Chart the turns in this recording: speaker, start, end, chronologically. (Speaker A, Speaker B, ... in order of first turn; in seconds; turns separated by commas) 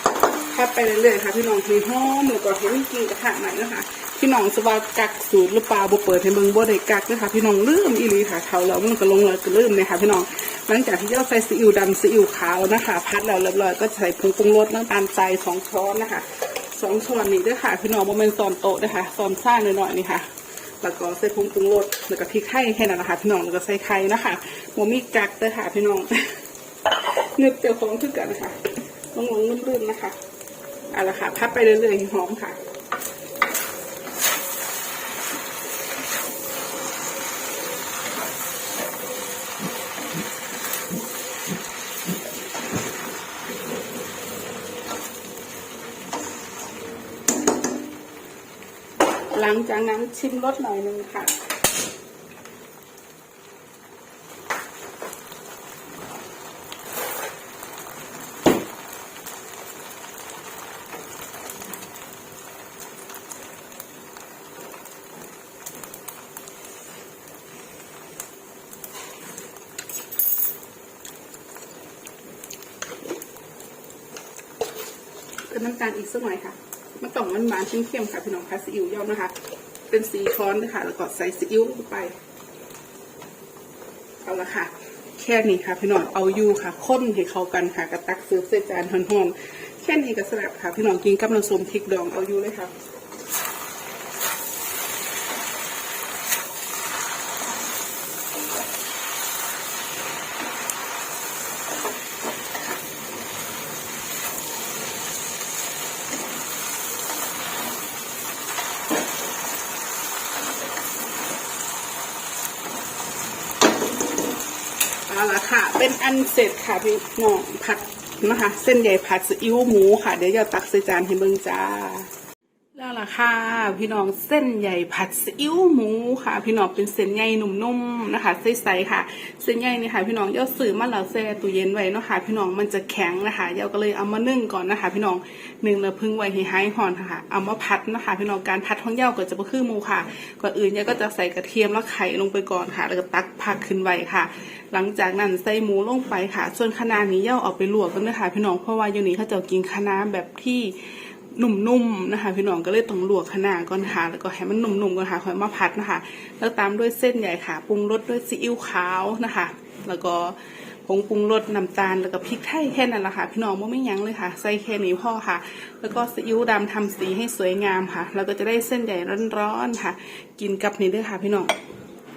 Speaker A: 0.3-20.3, Speaker A: 20.8-30.2, Speaker A: 30.9-32.6, Speaker A: 49.3-51.4, Speaker A: 75.5-79.4, Speaker A: 79.9-82.2, Speaker A: 84.2-92.7, Speaker A: 115.1-122.1, Speaker A: 122.8-171.6